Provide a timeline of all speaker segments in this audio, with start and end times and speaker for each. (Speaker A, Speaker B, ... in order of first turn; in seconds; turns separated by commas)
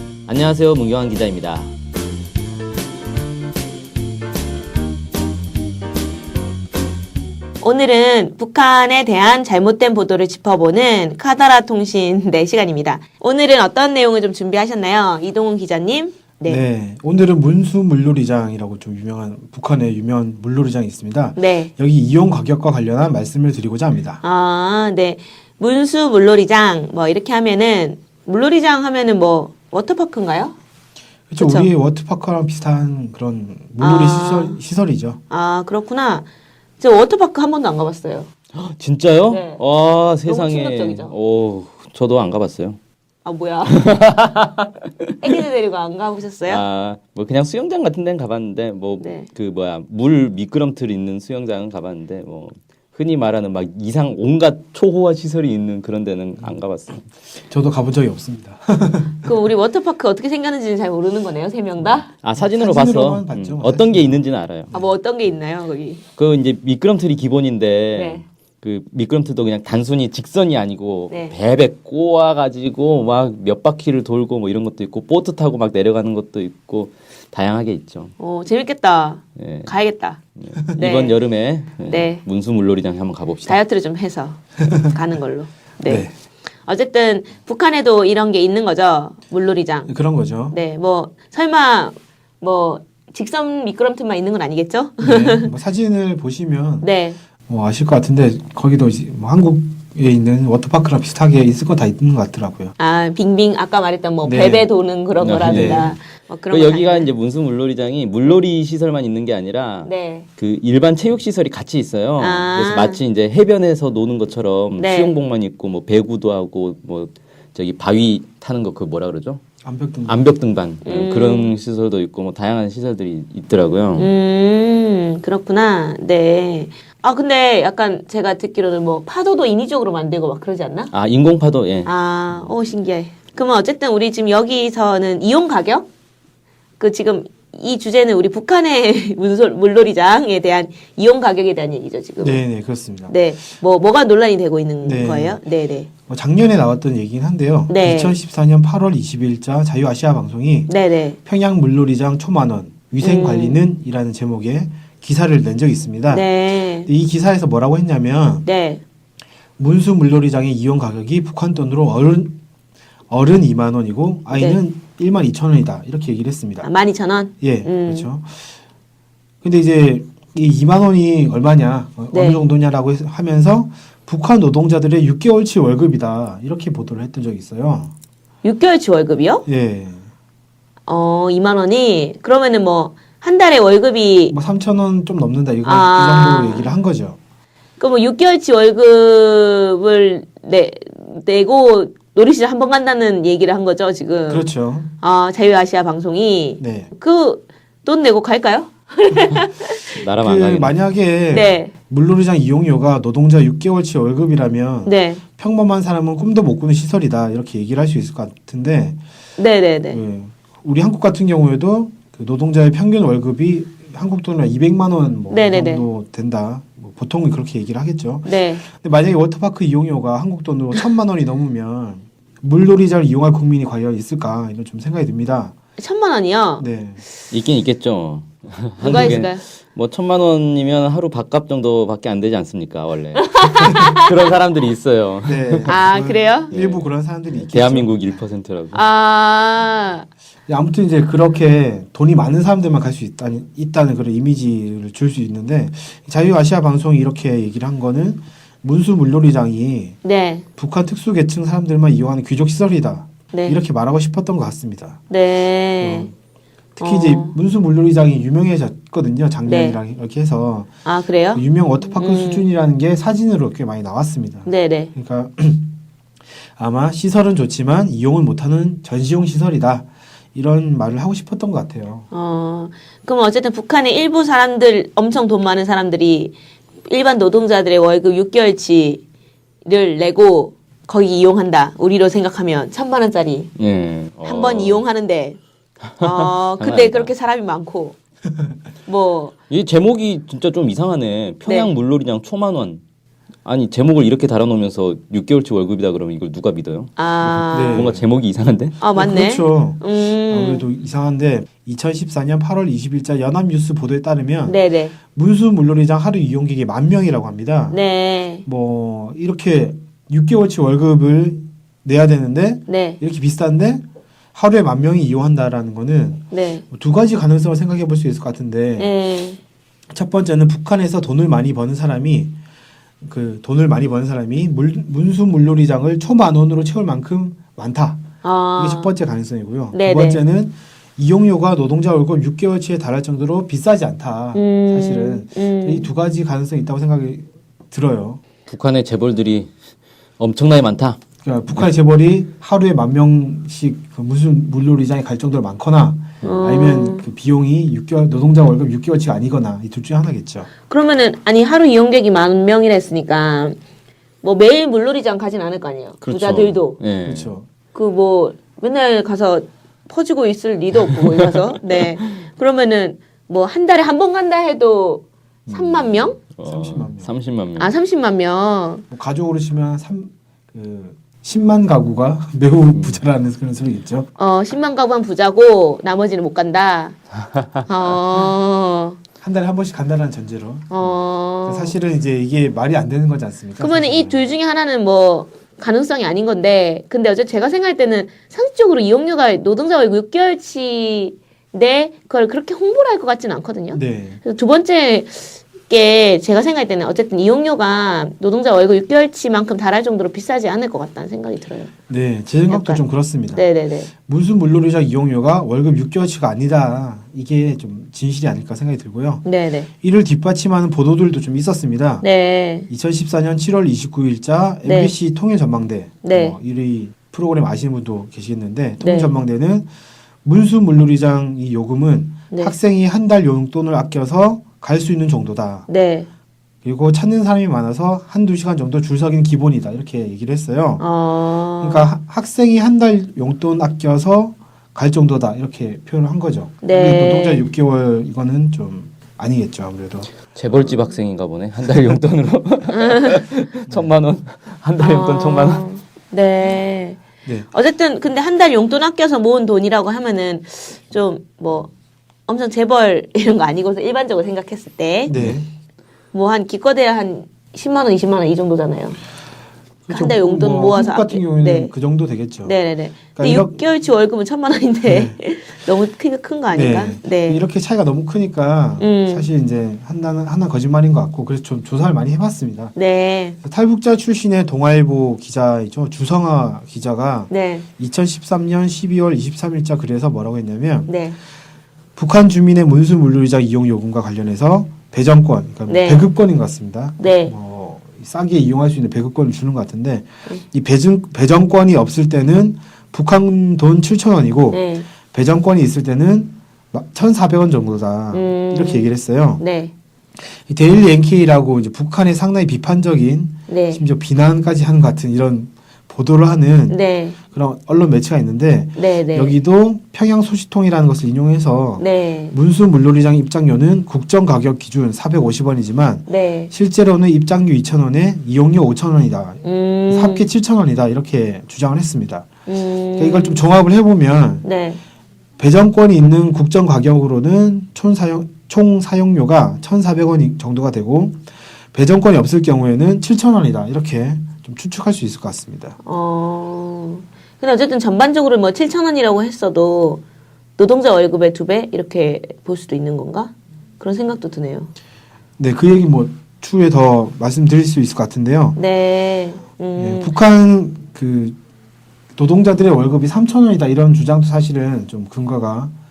Speaker A: 0.3-1.7, Speaker B: 7.6-16.6, Speaker C: 16.5-24.2, Speaker B: 21.4-21.7, Speaker B: 24.2-30.6, Speaker C: 31.3-35.2, Speaker B: 31.4-31.7, Speaker B: 33.8-34.6, Speaker B: 35.3-36.3, Speaker B: 36.8-38.3, Speaker A: 38.5-42.8, Speaker B: 39.3-39.6, Speaker B: 40.3-41.1, Speaker B: 43.2-43.8, Speaker A: 43.7-44.7, Speaker B: 45.2-46.6, Speaker A: 46.5-57.0, Speaker B: 49.0-49.3, Speaker C: 57.5-59.3, Speaker B: 59.2-62.1, Speaker A: 61.9-64.7, Speaker C: 62.4-64.9, Speaker B: 64.7-66.0, Speaker A: 66.2-78.1, Speaker B: 67.9-68.2, Speaker B: 78.2-80.2, Speaker A: 79.4-79.8, Speaker A: 80.4-83.6, Speaker B: 80.8-81.2, Speaker B: 81.9-82.2, Speaker B: 83.5-86.1, Speaker C: 85.8-86.1, Speaker B: 86.6-89.9, Speaker C: 89.9-90.6, Speaker B: 90.5-95.5, Speaker C: 95.0-96.9, Speaker B: 96.8-97.2, Speaker C: 97.5-102.7, Speaker B: 102.8-107.1, Speaker C: 104.2-104.7, Speaker A: 105.2-106.0, Speaker C: 105.4-105.9, Speaker A: 106.5-119.4, Speaker B: 109.8-110.3, Speaker B: 112.2-113.0, Speaker B: 114.8-115.2, Speaker C: 119.6-120.3, Speaker A: 120.0-124.1, Speaker B: 120.8-121.5, Speaker B: 124.0-130.9, Speaker A: 130.9-131.9, Speaker B: 131.8-135.9, Speaker B: 136.8-142.4, Speaker C: 142.2-143.2, Speaker B: 143.1-145.9, Speaker C: 144.8-145.4, Speaker C: 146.1-150.7, Speaker B: 147.7-148.2, Speaker B: 150.7-151.2, Speaker C: 151.2-156.3, Speaker B: 153.0-153.6, Speaker B: 156.1-156.9, Speaker C: 156.9-158.5, Speaker B: 158.4-158.8, Speaker C: 159.6-162.4, Speaker C: 163.1-166.7, Speaker B: 164.3-164.6, Speaker B: 166.6-168.1, Speaker C: 167.4-168.5, Speaker C: 169.4-177.9, Speaker B: 172.1-172.4, Speaker B: 178.4-179.5, Speaker C: 179.5-180.1, Speaker B: 180.9-184.4, Speaker C: 184.3-187.2, Speaker B: 185.6-186.8, Speaker B: 187.8-194.5, Speaker C: 194.3-194.9, Speaker B: 195.0-200.0, Speaker C: 196.6-196.9, Speaker A: 199.9-200.8, Speaker C: 200.2-209.0, Speaker B: 201.3-201.7, Speaker B: 204.8-205.2, Speaker B: 209.4-210.0, Speaker C: 209.9-225.5, Speaker B: 215.3-215.9, Speaker B: 218.2-218.6, Speaker B: 225.8-226.7, Speaker C: 226.6-227.0, Speaker A: 227.3-235.9, Speaker B: 228.8-229.4, Speaker B: 233.2-234.1, Speaker C: 235.2-238.2, Speaker B: 235.7-236.5, Speaker A: 236.5-238.9, Speaker B: 238.7-240.1, Speaker C: 240.5-250.0, Speaker B: 250.0-250.4, Speaker C: 250.6-255.0, Speaker B: 253.3-253.6, Speaker B: 255.1-256.1, Speaker C: 255.8-256.1, Speaker B: 256.8-257.4, Speaker C: 256.8-260.7, Speaker B: 259.5-259.8, Speaker B: 260.9-262.4, Speaker C: 261.3-265.8, Speaker B: 264.5-264.9, Speaker C: 266.4-272.1, Speaker B: 272.1-279.0, Speaker B: 279.6-283.5, Speaker A: 283.6-284.8, Speaker B: 284.2-285.4, Speaker A: 286.0-287.1, Speaker B: 286.0-288.0, Speaker B: 288.9-289.4, Speaker A: 289.5-292.8, Speaker B: 291.5-291.7, Speaker A: 293.4-298.8, Speaker B: 297.0-297.9, Speaker C: 297.5-298.0, Speaker B: 298.8-300.6, Speaker C: 298.9-304.6, Speaker B: 304.5-304.9, Speaker C: 305.1-307.8, Speaker B: 307.7-308.4, Speaker C: 308.4-318.9, Speaker B: 312.7-313.0, Speaker B: 316.3-316.6, Speaker B: 318.8-319.4, Speaker C: 319.9-322.3, Speaker C: 323.0-338.2, Speaker B: 328.2-328.9, Speaker B: 329.7-330.2, Speaker B: 334.3-335.9, Speaker A: 338.5-339.5, Speaker A: 340.2-341.0, Speaker C: 341.2-350.5, Speaker B: 346.2-347.1, Speaker B: 350.7-353.6, Speaker B: 354.2-356.8, Speaker A: 356.0-357.3, Speaker C: 357.0-357.5, Speaker B: 357.7-366.2, Speaker C: 365.5-367.1, Speaker A: 366.4-367.7, Speaker B: 367.6-368.9, Speaker C: 368.9-374.1, Speaker A: 372.7-373.0, Speaker B: 374.2-377.0, Speaker B: 377.7-379.0, Speaker C: 379.2-384.3, Speaker B: 380.7-381.8, Speaker B: 383.6-401.7, Speaker C: 393.7-394.2, Speaker C: 401.9-403.5, Speaker B: 402.5-403.9, Speaker C: 404.0-409.2, Speaker B: 409.2-409.7, Speaker C: 409.8-412.1, Speaker B: 412.0-412.7, Speaker C: 412.7-419.7, Speaker B: 414.6-414.9, Speaker B: 416.0-416.4, Speaker B: 418.8-419.1, Speaker C: 420.2-425.7, Speaker B: 425.7-426.1, Speaker C: 426.6-430.8, Speaker B: 430.8-431.9, Speaker C: 431.6-440.2, Speaker B: 436.6-437.5, Speaker A: 440.3-445.7, Speaker B: 442.7-443.1, Speaker C: 443.7-443.9, Speaker B: 444.8-447.0, Speaker B: 447.5-451.7, Speaker B: 452.3-455.2, Speaker C: 455.1-455.5, Speaker A: 455.1-455.4, Speaker B: 456.1-459.0, Speaker C: 459.9-462.6, Speaker B: 459.9-461.7, Speaker B: 462.4-467.5, Speaker C: 463.1-463.6, Speaker C: 464.9-465.2, Speaker C: 466.5-472.8, Speaker B: 468.8-469.3, Speaker B: 472.8-473.4, Speaker C: 473.4-480.9, Speaker B: 477.3-477.6, Speaker B: 480.9-481.2, Speaker C: 482.0-499.4, Speaker B: 485.7-486.1, Speaker B: 487.0-487.3, Speaker B: 494.5-494.9, Speaker B: 498.1-499.7, Speaker C: 500.2-522.3, Speaker B: 503.5-503.8, Speaker B: 506.7-507.2, Speaker B: 508.8-509.4, Speaker B: 511.8-512.4, Speaker B: 516.1-516.5, Speaker B: 519.4-520.3, Speaker B: 522.5-523.4, Speaker C: 523.0-524.5, Speaker B: 524.4-524.8, Speaker C: 525.4-535.8, Speaker B: 535.8-540.0, Speaker B: 540.6-544.7, Speaker C: 545.4-548.6, Speaker B: 548.5-550.1, Speaker C: 549.8-551.4, Speaker C: 552.2-555.7